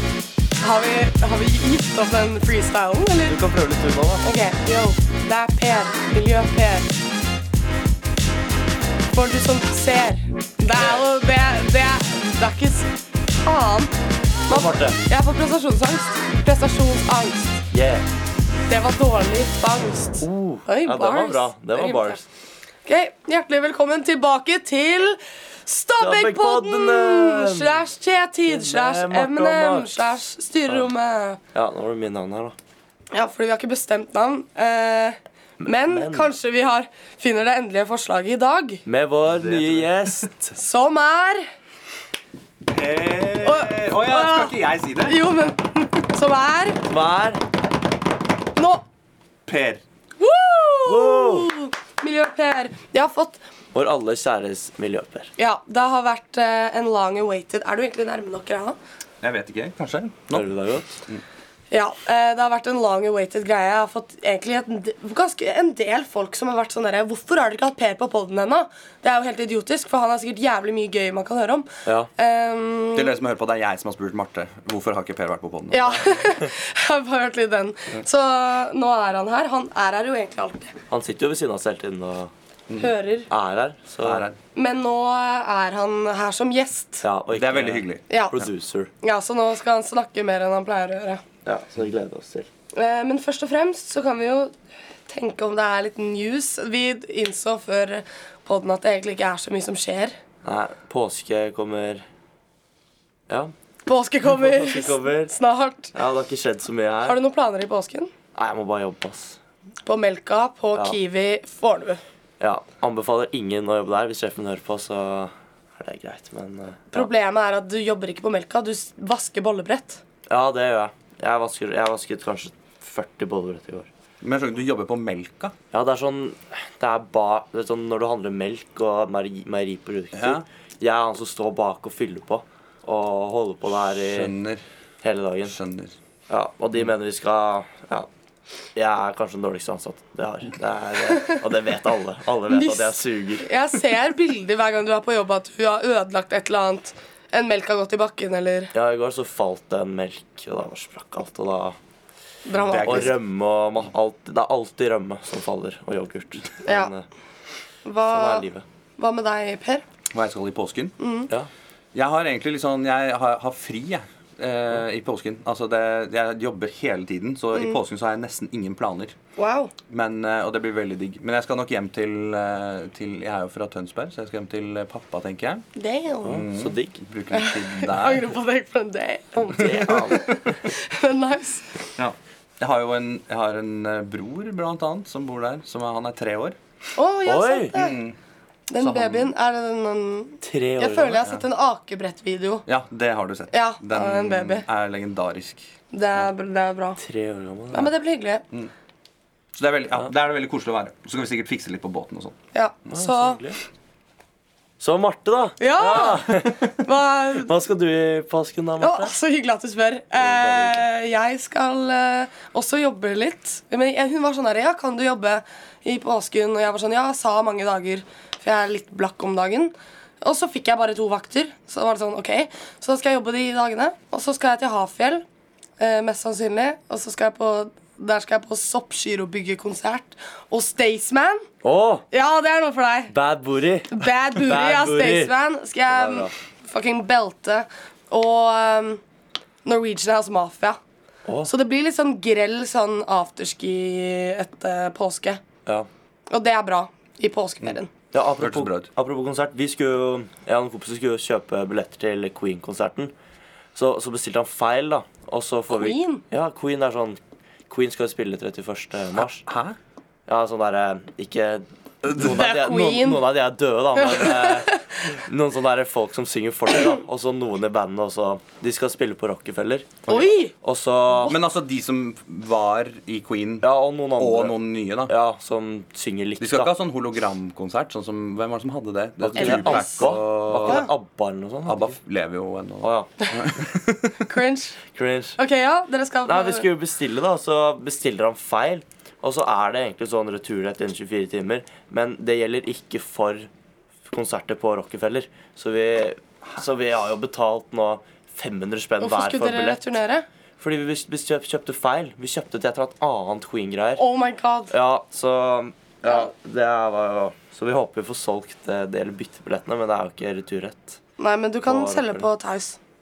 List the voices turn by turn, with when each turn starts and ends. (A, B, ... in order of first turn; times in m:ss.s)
0:00.6-0:03.4 A
0:03.2-0:04.2 B
0:04.2-0:06.9 A
0:09.1-0:13.9 A
0:10.7-0:11.0 B
0:14.5-0:17.6 A
0:14.5-0:15.0 B
0:17.7-0:18.1 B
0:18.7-0:22.2 A
0:20.2-0:22.2 B
0:22.8-0:31.4 A
0:26.0-0:27.8 B
0:28.5-0:30.1 B
0:31.5-0:32.6 B
0:33.1-0:38.8 A
0:35.6-0:36.3 B
0:38.8-0:40.6 B
0:39.2-0:40.3 C
0:40.6-0:41.5 A
0:42.6-0:45.2 C
0:43.4-0:44.5 A
0:45.0-0:46.9 A
0:46.9-0:47.4 B
0:48.6-0:48.8 A
0:49.4-0:49.8 C
0:50.2-0:53.4 A
0:50.8-0:51.5 B
0:53.7-0:55.3 B
0:55.4-0:58.8 A
0:59.2-1:00.5 C
1:00.3-1:01.0 B
1:01.7-1:13.1 A
1:12.9-1:16.0 C
1:15.7-1:20.8 A
1:20.9-1:22.3 B
1:22.8-1:23.3 A
1:23.3-1:24.2 B
1:24.0-1:24.4 C
1:24.5-1:27.0 A
1:27.0-1:28.9 B
1:27.3-1:28.0 C
1:28.1-1:28.4 A
1:29.0-1:31.2 A
1:31.4-1:32.5 B
1:32.7-1:34.5 A
1:35.1-1:40.2 A
1:40.4-1:42.0 B
1:43.8-1:45.9 A
1:44.2-1:45.3 B
1:45.9-1:47.2 B
1:47.0-1:48.1 A
1:48.3-1:49.4 B
1:49.8-1:52.0 A
1:52.4-1:57.1 B
1:56.9-2:00.0 A
2:00.3-2:03.9 B
2:04.2-2:05.5 C
2:05.7-2:14.3 B
2:10.1-2:10.4 C
2:14.1-2:14.6 C
2:15.0-2:15.5 B
2:15.4-2:15.9 C
2:16.3-2:18.1 B
2:18.8-2:23.5 B
2:21.1-2:21.4 A
2:22.5-2:28.7 A
2:28.7-2:31.8 B
2:32.4-2:33.2 A
2:32.5-2:33.2 C
2:32.8-2:37.0 B
2:36.6-2:36.9 A
2:37.8-2:38.5 A
2:38.1-2:38.6 B
2:39.0-2:39.8 A
2:40.1-2:40.9 C
2:41.0-2:41.3 A
2:41.9-2:49.1 C
2:49.4-2:49.7 A
2:49.9-2:55.6 C
2:55.8-2:56.4 A
2:56.2-2:57.0 B
2:56.2-2:58.3 C
2:57.3-3:01.8 A
2:59.5-3:00.6 B
3:02.0-3:06.6 C
3:07.0-3:08.0 A
3:07.2-3:07.7 B
3:07.7-3:08.2 C
3:08.7-3:12.6 A
3:08.8-3:09.3 C
3:10.4-3:11.2 B
3:12.7-3:15.6 C
3:13.5-3:14.6 A
3:15.9-3:17.0 A
3:17.0-3:17.9 B
3:17.7-3:18.4 A
3:19.5-3:22.4 C
3:22.5-3:23.4 A
3:22.9-3:23.6 B
3:24.8-3:29.1 B
3:25.6-3:27.5 A
3:28.8-3:45.2 A
3:30.2-3:30.8 B
3:45.8-3:51.4 A
3:51.6-3:52.0 B
3:52.1-3:53.2 A
3:53.1-3:55.3 B
3:53.9-3:59.0 A
3:55.9-3:56.3 B
3:59.6-4:00.8 A
4:01.4-4:05.4 A
4:06.3-4:07.9 A
4:08.1-4:13.1 B
4:08.4-4:08.9 C
4:13.7-4:19.4 B
4:15.7-4:16.2 A
4:19.4-4:19.8 C
4:20.3-4:31.4 B
4:22.0-4:22.4 C
4:22.2-4:23.2 A
4:24.0-4:25.1 A
4:30.1-4:30.5 A
4:31.2-4:35.1 C
4:33.6-4:34.6 B
4:35.1-4:36.7 B
4:36.4-4:40.9 C
4:39.2-4:41.9 B
4:39.4-4:40.1 A
4:40.6-4:40.9 A
4:41.6-4:44.2 C
4:42.8-4:43.1 B
4:44.2-4:44.8 A
4:44.9-4:45.4 B
4:45.4-4:46.6 A
4:46.2-4:53.5 B
4:54.0-4:59.8 B
4:59.0-5:00.2 A
5:00.6-5:04.0 B
5:04.0-5:04.7 A
5:04.7-5:11.0 B
5:06.0-5:06.3 A
5:11.2-5:12.8 A
5:11.6-5:12.2 B